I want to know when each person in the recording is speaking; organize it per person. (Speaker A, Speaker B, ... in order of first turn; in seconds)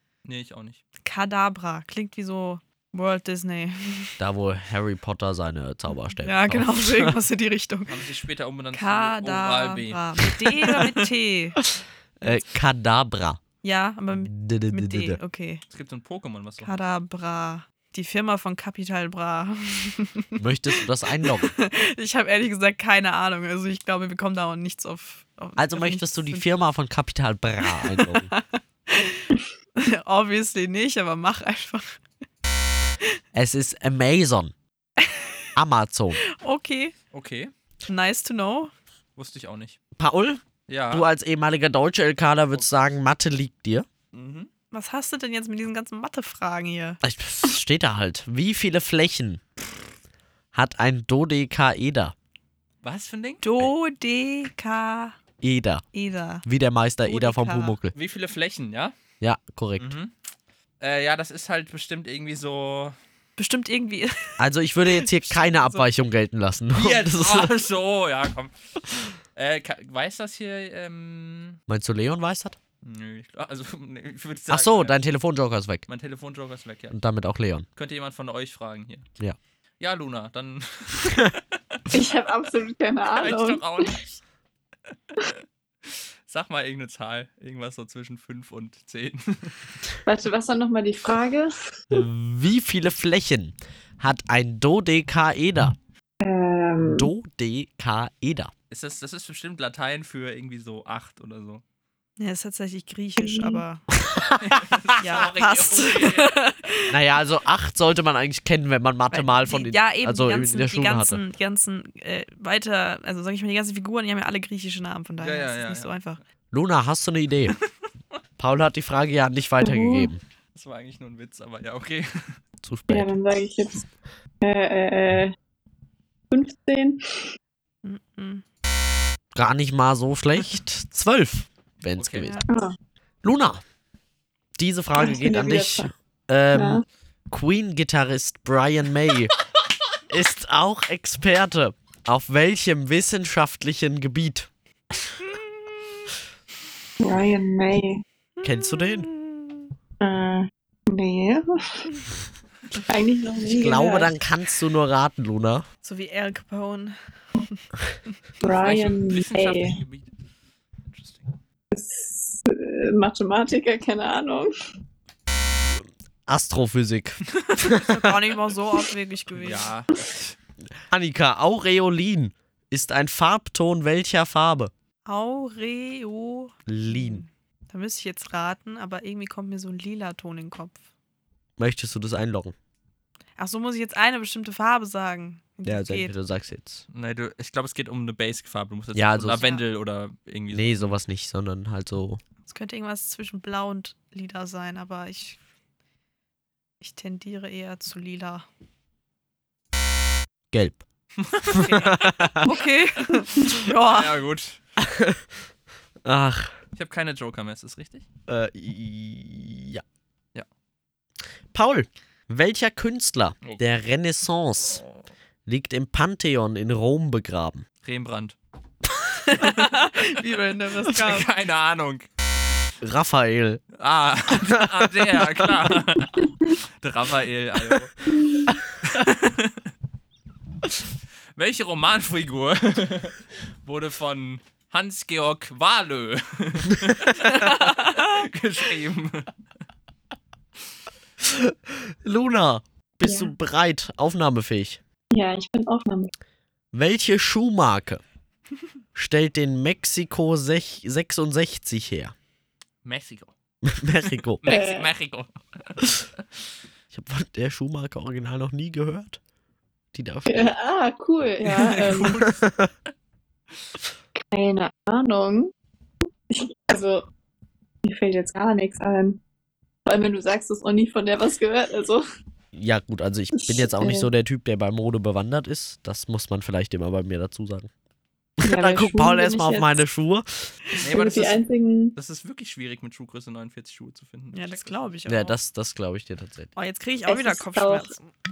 Speaker A: 0.2-0.8, 7.9-10.9, 15.7-16.7, 37.1-37.5, 39.2-39.8, 40.7-41.1, 44.1-44.5, 52.8-53.4, 57.9-58.9, 59.8-60.1, 60.8-63.0, 66.8-68.5, 69.3-71.6, 72.8-75.0, 75.9-77.0, 77.8-79.1, 79.8-81.8, 83.1-84.2, 85.2-89.8, 98.7-101.6, 104.4-106.3, 115.2-116.0, 120.5-122.4, 132.0-132.3, 158.4-160.1, 160.9-161.3, 169.4-170.4, 186.9-190.9, 201.2-202.1, 203.7-204.6, 206.8-208.1, 217.8-218.4, 219.4-219.7, 220.9-222.1, 223.8-227.9, 228.8-229.7, 231.4-239.3, 252.8-253.3, 254.4-255.9, 261.4-262.3, 280.8-281.4, 282.0-284.9
Speaker B: 1.0-4.2, 6.2-8.0, 8.7-11.6, 13.6-15.6, 16.6-20.4, 21.2-26.5, 27.7-32.0, 35.0-35.5, 36.2-37.0, 37.9-38.7, 44.7-47.0, 53.4-55.2, 55.9-56.5, 57.0-57.8, 63.4-65.8, 102.2-103.8, 105.0-107.0, 109.1-116.2, 127.8-128.4, 132.2-132.5, 145.2-145.8, 148.4-149.7, 155.8-157.6, 167.6-169.7, 175.1-180.8, 183.4-186.1, 189.3-189.6, 192.5-195.4, 196.8-198.5, 201.6-201.9, 202.4-204.2, 219.2-221.3, 237.2-238.1, 284.3-285.4, 286.6-288.1
Speaker C: 4.2-7.2, 11.6-13.4, 14.1-15.2, 20.4-21.5, 25.6-28.3, 33.3-34.5, 35.6-36.2, 40.0-43.9, 47.0-49.4, 50.5-52.1, 55.4-55.8, 56.5-57.9, 59.2-60.0, 64.4-67.5, 71.7-72.6, 74.5-75.8, 76.9-77.7, 81.0-81.3, 91.9-95.8, 96.8-98.5, 103.9-104.8, 106.9-111.2, 116.5-117.6, 118.4-120.2, 122.6-123.2, 129.3-132.4, 133.2-133.6, 134.6-139.3, 140.1-144.5, 148.4-149.1, 153.5-155.7, 165.6-168.2, 170.9-174.7, 176.7-177.2, 181.6-182.6, 185.7-186.8, 188.9-189.4, 190.5-192.2, 200.5-200.8, 201.5-202.5, 204.8-205.3, 206.1-206.5, 208.3-209.8, 211.5-214.8, 215.5-217.7, 222.8-223.6, 224.3-225.7, 241.2-244.8, 246.7-248.0, 248.9-252.1, 253.6-254.4, 256.9-259.2, 259.9-260.6, 261.9-262.7, 272.5-277.7, 278.4-280.6, 285.1-286.5
Speaker D: 81.9-83.9, 90.1-91.8, 96.2-97.1, 103.2-103.6, 119.6-120.1, 122.9-123.8, 124.4-125.3, 126.3-127.3, 132.5-132.8, 135.0-135.9, 136.5-136.8, 147.0-148.0, 150.0-151.9, 152.9-154.1, 158.4-159.8, 161.7-164.5, 228.1-228.5, 243.1-243.3, 245.1-246.1, 254.5-254.9, 260.3-262.3, 264.2-265.5, 266.3-267.1, 267.9-269.2, 269.9-272.0, 273.4-274.1, 278.4-279.8, 280.8-282.0, 287.1-287.9